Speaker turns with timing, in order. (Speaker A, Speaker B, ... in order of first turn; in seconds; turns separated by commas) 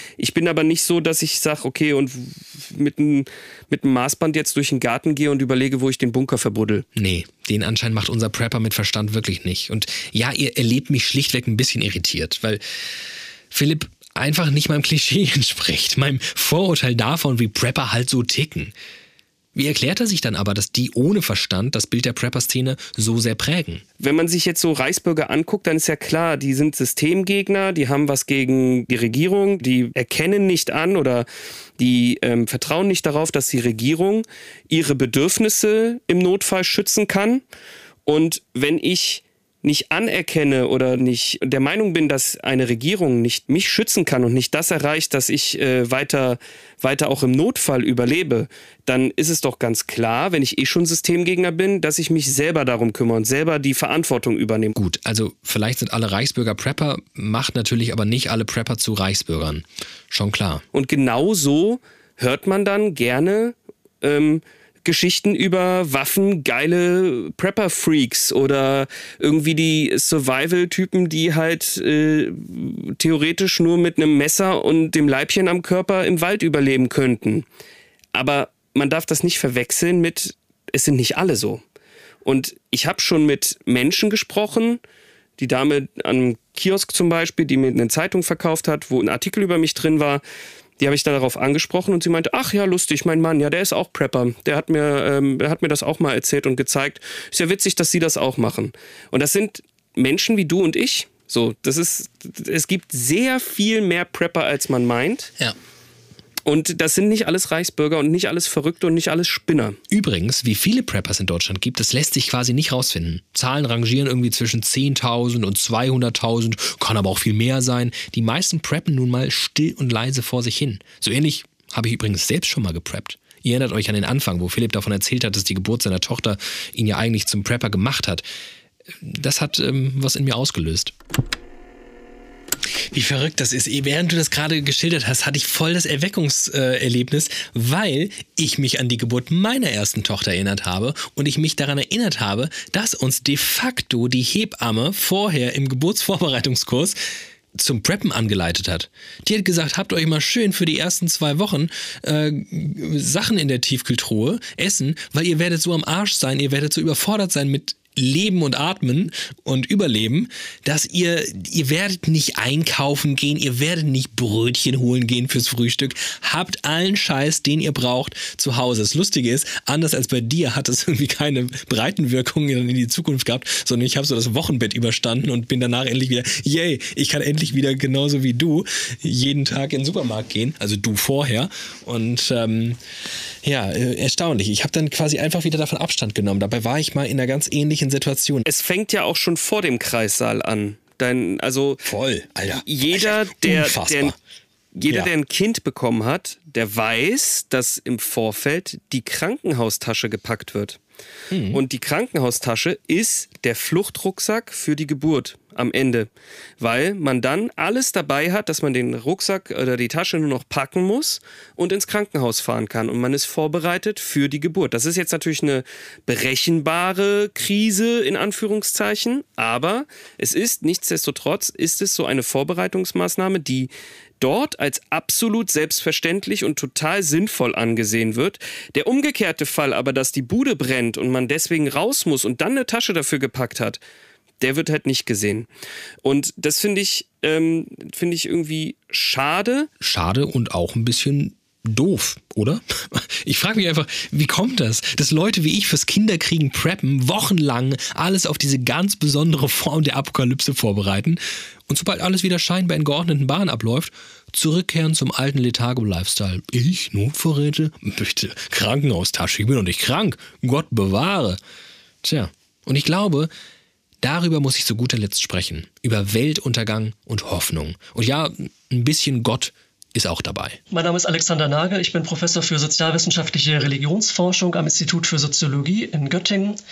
Speaker A: 0.2-6.8, Speaker B: 7.0-12.6, Speaker B: 13.5-18.7, Speaker B: 19.5-23.8, Speaker A: 24.0-31.3, Speaker A: 31.8-37.4, Speaker A: 38.0-54.7, Speaker B: 54.7-60.6, Speaker A: 60.7-77.4, Speaker A: 78.1-81.6, Speaker A: 82.2-84.8, Speaker A: 85.4-90.2, Speaker A: 90.8-105.3, Speaker A: 106.5-109.8, Speaker B: 109.9-128.2, Speaker B: 129.0-130.9, Speaker B: 132.9-147.0, Speaker B: 147.5-182.8, Speaker B: 183.4-188.4, Speaker A: 188.5-191.8, Speaker B: 191.8-194.2, Speaker A: 192.7-194.1, Speaker A: 194.7-200.8, Speaker B: 201.3-201.6, Speaker A: 201.5-206.1, Speaker A: 206.6-233.8, Speaker A: 234.4-235.5, Speaker A: 236.0-239.7, Speaker B: 239.8-261.4, Speaker B: 262.0-263.3, Speaker B: 264.0-270.6, Speaker C: 270.7-276.6